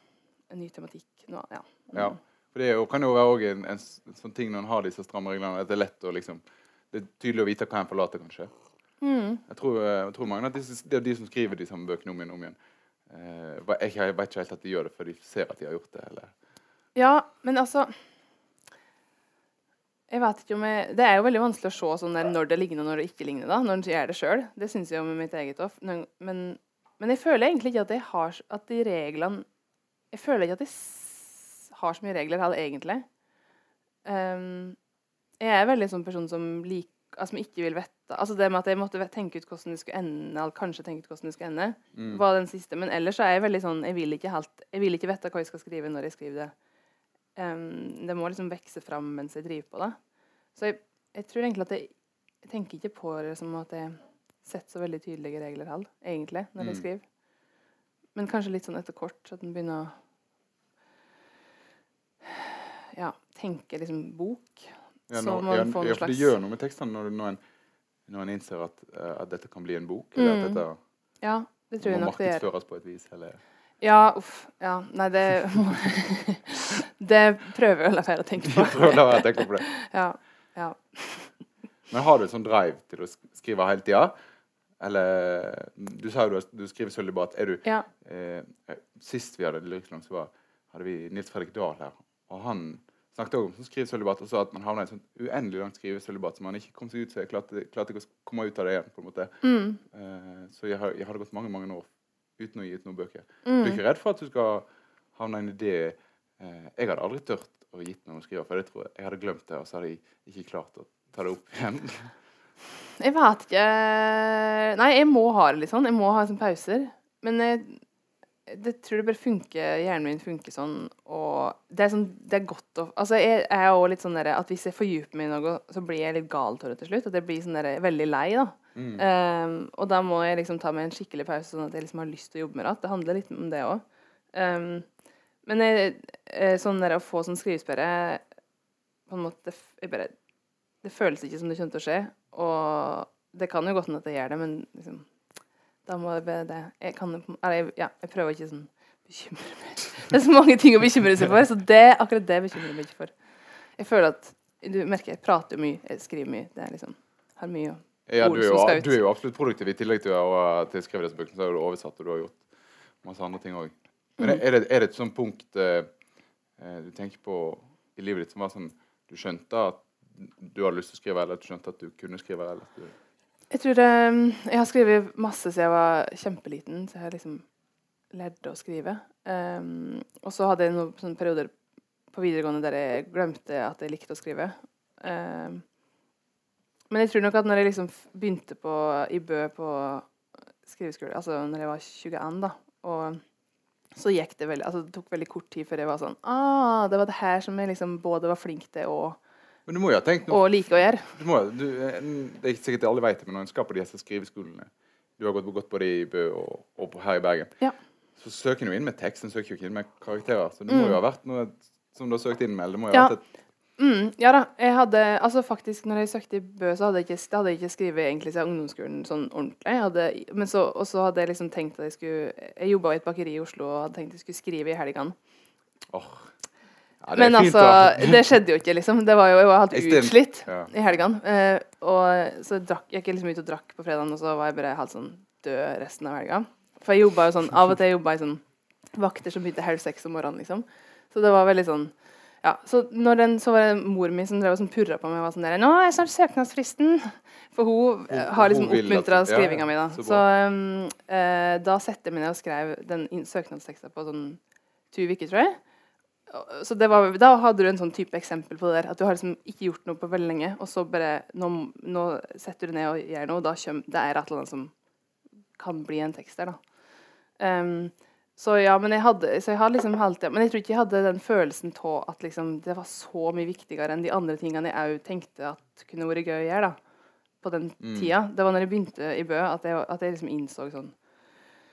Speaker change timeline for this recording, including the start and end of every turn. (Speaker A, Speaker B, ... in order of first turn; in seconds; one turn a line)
Speaker A: 0.5-2.2
Speaker B: 1.9-8.5
Speaker A: 9.0-9.4
Speaker B: 9.5-12.6
Speaker B: 13.1-16.3
Speaker A: 16.9-17.9
Speaker A: 20.1-29.5
Speaker A: 30.1-33.0
Speaker A: 34.0-34.8
Speaker A: 35.4-46.5
Speaker B: 41.9-42.2
Speaker A: 47.4-50.0
Speaker A: 50.6-51.9
Speaker A: 52.4-57.0
Speaker B: 56.6-56.9
Speaker A: 58.1-59.9
Speaker A: 62.2-66.3
Speaker B: 65.1-67.4
Speaker B: 68.1-70.8
Speaker A: 70.2-70.6
Speaker A: 71.2-72.5
Speaker B: 71.8-73.4
Speaker A: 73.8-81.3
Speaker B: 78.4-79.7
Speaker B: 81.9-84.1
Speaker B: 84.8-99.3
Speaker A: 99.4-99.8
Speaker B: 99.9-112.1
Speaker A: 103.5-103.8
Speaker A: 113.0-117.8
Speaker A: 118.5-134.9
Speaker B: 128.8-129.1
Speaker A: 135.4-138.2
Speaker A: 139.1-140.2
Speaker A: 140.8-145.1
Speaker A: 145.9-153.1
Speaker A: 153.8-159.0
Speaker B: 158.1-162.4
Speaker B: 163.0-165.9
Speaker B: 166.6-172.9
Speaker A: 173.5-177.4
Speaker A: 178.1-181.5
Speaker A: 182.1-185.6
Speaker A: 186.9-190.1
Speaker A: 190.7-193.2
Speaker A: 193.9-199.2
Speaker B: 199.7-207.5
Speaker A: 200.3-201.2
Speaker B: 208.2-213.2
Speaker A: 210.7-211.0
Speaker A: 213.8-225.2
Speaker B: 225.9-226.3
Speaker B: 227.0-228.3
Speaker A: 227.1-254.4
Speaker B: 229.7-230.7
Speaker B: 248.1-250.2
Speaker A: 254.9-255.6
Speaker A: 256.3-264.7
Speaker A: 265.6-266.6
Speaker A: 267.4-276.8
Speaker A: 277.4-280.9
Speaker B: 277.8-278.1